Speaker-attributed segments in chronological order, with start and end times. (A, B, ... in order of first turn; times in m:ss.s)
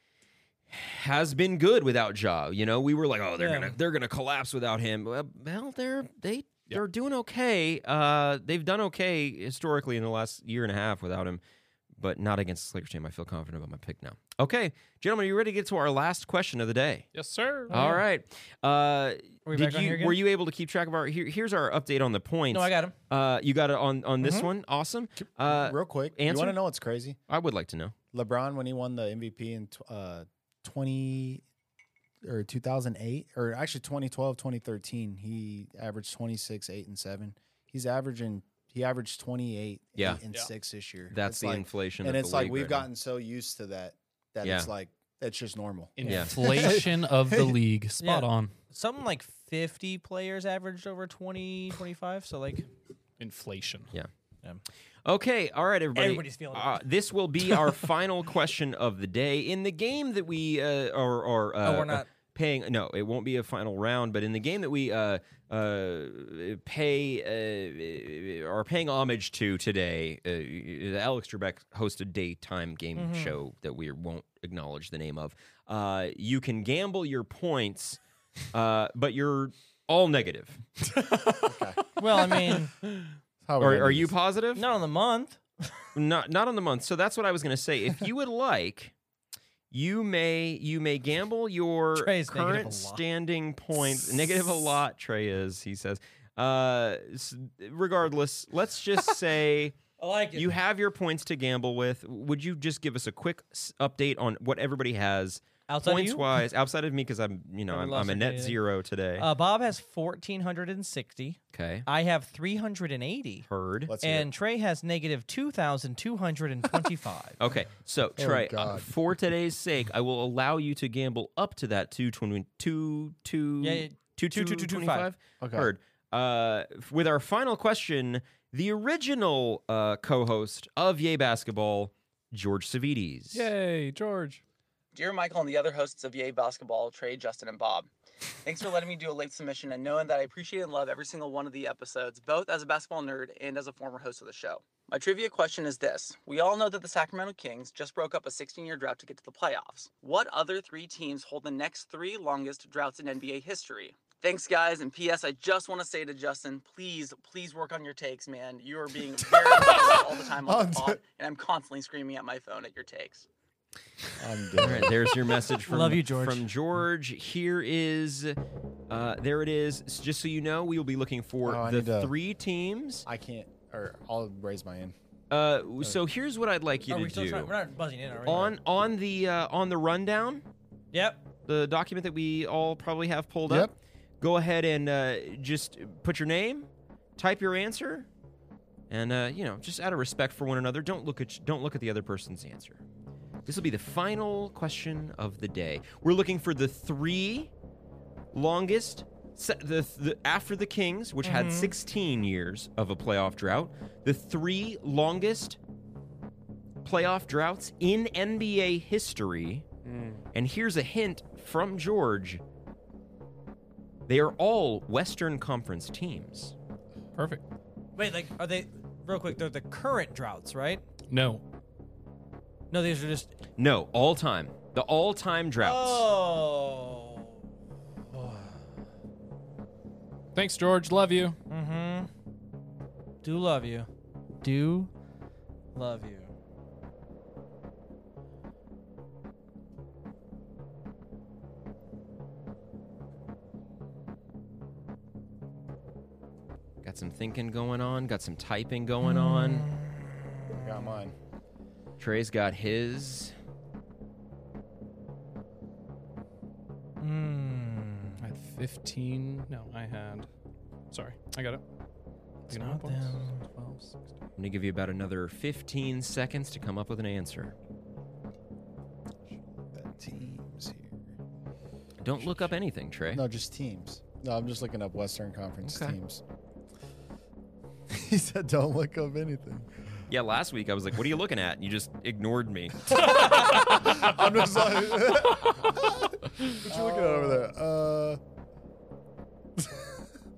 0:00.7-0:11.4 A
0:03.4-0:03.7 B
0:12.0-0:17.1 A
0:17.1-0:17.7 C
0:17.7-0:18.0 B
0:17.7-0:26.6 A
0:19.4-0:20.2 B
0:22.5-0:22.9 B
0:24.2-0:24.5 B
0:25.4-0:27.2 D
0:27.3-0:27.9 A
0:28.1-0:31.4 D
0:32.2-0:47.6 D
0:41.1-0:42.9 A
0:44.4-0:44.7 A
0:46.0-0:48.5 C
0:46.0-0:46.3 A
0:48.0-0:52.7 B
0:53.2-0:53.9 C
0:55.0-1:18.0 A
0:55.9-0:56.7 B
1:01.6-1:02.1 B
1:13.0-1:13.3 B
1:18.5-1:20.6 A
1:20.9-1:21.5 C
1:21.4-1:21.8 D
1:22.0-1:22.7 B
1:23.4-1:24.1 D
1:23.6-1:24.6 A
1:24.6-1:25.7 B
1:25.9-1:28.9 A
1:29.7-1:39.8 A
1:32.0-1:33.0 B
1:40.0-1:40.5 B
1:40.3-1:49.3 A
1:45.7-1:46.2 B
1:47.7-1:48.6 B
1:49.2-1:53.4 B
1:51.5-1:51.9 A
1:53.5-1:53.9 A
1:53.9-1:54.3 D
1:54.0-1:57.4 B
1:57.4-2:13.5 A
1:58.2-1:58.9 D
2:03.6-2:05.1 B
2:05.4-2:05.7 D
2:13.3-2:14.4 C
2:14.9-2:17.9 E
2:18.4-2:43.3 E
2:39.4-2:41.0 D
2:44.2-2:45.1 D
2:44.6-2:48.4 A
2:45.7-2:46.5 B
2:48.9-2:53.0 A
2:51.4-2:52.1 D
2:53.0-2:54.9 D
2:55.3-2:57.5 A
2:56.9-2:58.5 B
2:58.2-3:00.4 A
3:00.9-3:01.2 B
3:01.5-3:08.1 A
3:03.5-3:03.7 D
3:08.9-3:12.8 A
3:13.4-3:17.5 A
3:18.3-3:25.6 A
3:21.2-3:21.7 B
3:26.8-3:29.6 A
3:29.9-3:30.2 C
3:30.3-3:32.4 A
3:34.1-3:36.5 A
3:37.1-3:37.4 C
3:38.0-3:40.8 B
3:41.1-3:41.4 C
3:42.7-3:43.3 B
3:43.6-3:46.0 A
3:45.6-3:47.4 B
3:48.1-3:48.6 B
3:50.3-3:51.4 C
3:51.5-3:52.1 B
3:53.2-3:53.9 B
3:54.4-3:54.9 B
3:55.7-3:56.3 B
4:06.8-4:09.7 A
4:09.0-4:11.0 B
4:10.5-4:11.1 D
4:12.0-4:13.3 A
4:17.0-4:18.2 B
4:18.2-4:20.3 C
4:20.9-4:21.6 C
4:22.5-4:23.9 C
4:22.5-4:23.4 B
4:24.4-4:27.5 A
4:29.3-4:31.2 D
4:32.0-4:33.2 A
4:32.2-4:32.5 D
4:33.1-4:36.2 D
4:35.6-4:36.0 A
4:37.9-4:39.7 D
4:40.1-4:43.7 A
4:42.9-4:48.2 D
4:46.6-4:47.4 B
4:49.6-4:49.9 D